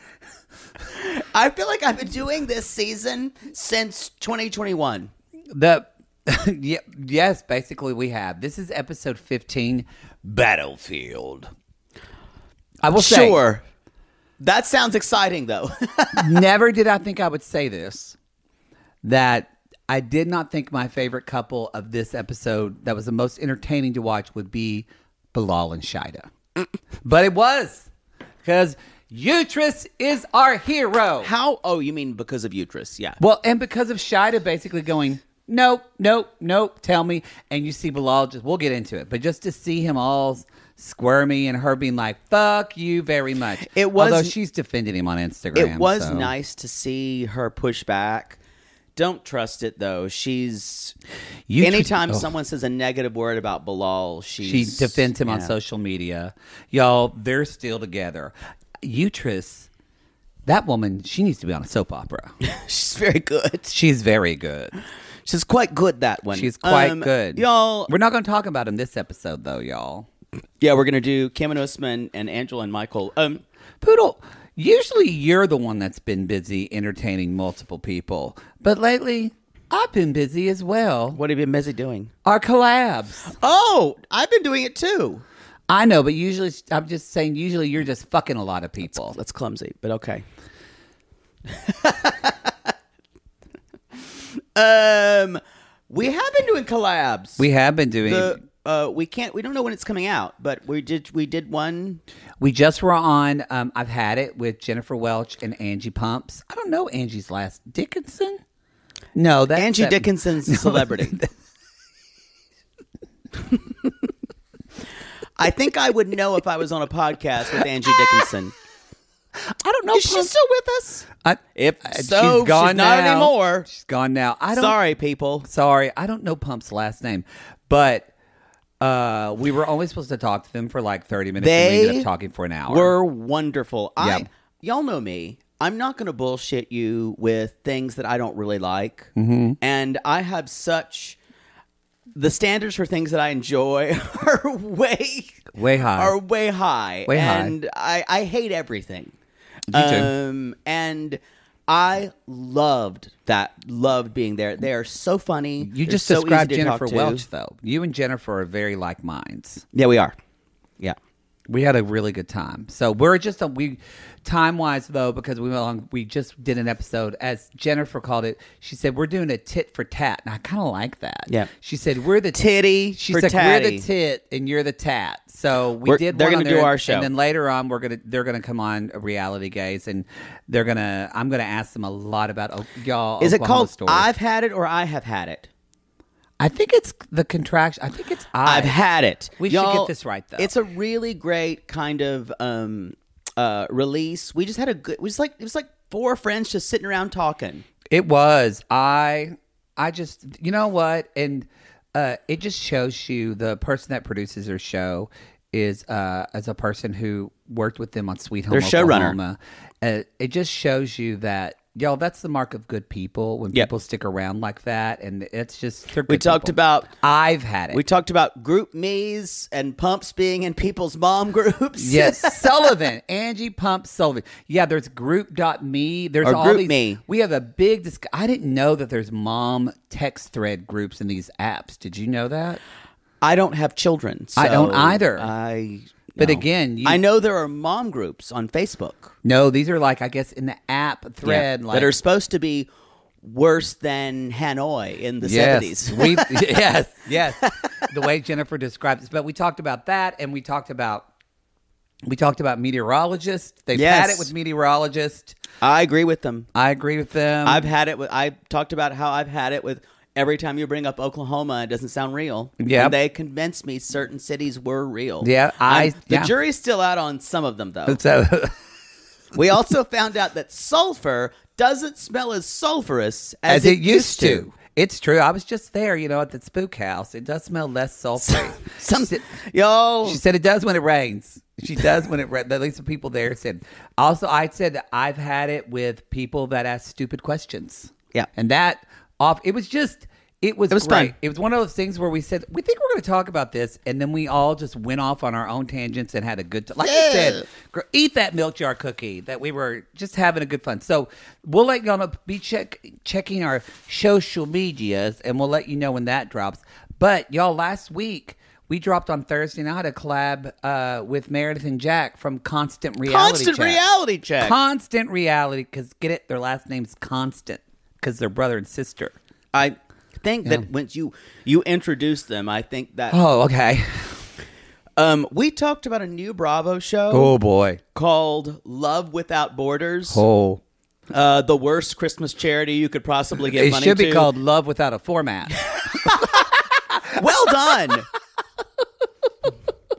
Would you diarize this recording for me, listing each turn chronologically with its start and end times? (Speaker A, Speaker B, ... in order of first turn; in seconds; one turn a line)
Speaker A: 0.9-5.1
Speaker B: 5.5-11.5
Speaker B: 12.8-13.4
Speaker A: 12.9-13.6
Speaker A: 14.4-16.4
Speaker B: 16.1-18.1
Speaker B: 19.0-26.3
Speaker B: 27.0-27.9
Speaker B: 28.4-31.3
Speaker A: 31.2-33.2
Speaker B: 33.2-46.3
Speaker A: 43.7-44.3
Speaker A: 45.5-48.4
Speaker A: 49.0-50.9
Speaker B: 51.5-52.3
Speaker A: 51.6-55.5
Speaker B: 54.4-59.7
Speaker B: 60.5-62.3
Speaker A: 62.4-63.7
Speaker B: 63.7-64.8
Speaker A: 65.2-67.9
Speaker B: 66.3-70.1
Speaker A: 70.6-73.4
Speaker B: 73.8-81.2
Speaker A: 81.1-82.1
Speaker B: 82.2-83.3
Speaker A: 83.4-85.2
Speaker B: 85.7-89.2
Speaker A: 88.9-90.2
Speaker A: 91.5-92.5
Speaker A: 94.5-97.4
Speaker B: 97.4-98.4
Speaker A: 98.0-102.0
Speaker B: 102.4-108.4
Speaker B: 109.1-111.3
Speaker A: 109.5-111.2
Speaker A: 115.4-118.5
Speaker B: 119.6-120.3
Speaker A: 119.9-123.7
Speaker B: 121.2-124.8
Speaker A: 124.5-125.5
Speaker B: 125.4-128.1
Speaker B: 128.8-132.9
Speaker A: 131.4-132.1
Speaker A: 132.7-141.2
Speaker B: 134.0-134.3
Speaker B: 139.2-139.6
Speaker A: 142.1-149.1
Speaker B: 145.5-146.2
Speaker B: 147.1-147.5
Speaker B: 149.7-150.1
Speaker A: 149.7-157.2
Speaker B: 155.6-159.6
Speaker A: 159.7-160.1
Speaker B: 161.5-172.4
Speaker A: 172.3-173.8
Speaker B: 172.9-184.1
Speaker A: 175.8-177.1
Speaker A: 183.2-185.5
Speaker B: 186.4-188.8
Speaker A: 188.4-197.7
Speaker B: 189.4-190.5
Speaker B: 197.9-217.8
Speaker A: 208.5-209.2
Speaker A: 216.1-216.9
Speaker A: 217.7-222.7
Speaker B: 221.8-232.6
Speaker A: 226.2-227.0
Speaker A: 233.2-239.1
Speaker B: 234.4-235.3
Speaker B: 236.2-237.0
Speaker B: 239.2-241.9
Speaker A: 241.2-242.7
Speaker A: 243.2-246.5
Speaker B: 245.2-251.1
Speaker B: 252.1-255.4
Speaker A: 253.7-254.3
Speaker A: 255.6-256.5
Speaker B: 256.5-257.7
Speaker A: 257.4-268.0
Speaker B: 262.6-262.9
Speaker B: 265.2-266.3
Speaker B: 267.9-268.5
Speaker A: 269.3-274.5
Speaker B: 273.5-279.2
Speaker A: 278.2-280.2
Speaker B: 280.0-313.8
Speaker A: 290.7-291.1
Speaker A: 296.8-297.4
Speaker A: 313.0-314.6
Speaker B: 314.4-319.1
Speaker A: 319.5-323.2
Speaker B: 323.1-324.2
Speaker A: 325.0-327.3
Speaker B: 327.1-327.8
Speaker A: 327.9-330.2
Speaker B: 330.1-330.6
Speaker A: 331.1-334.3
Speaker B: 333.5-336.5
Speaker A: 335.7-336.5
Speaker A: 337.0-338.1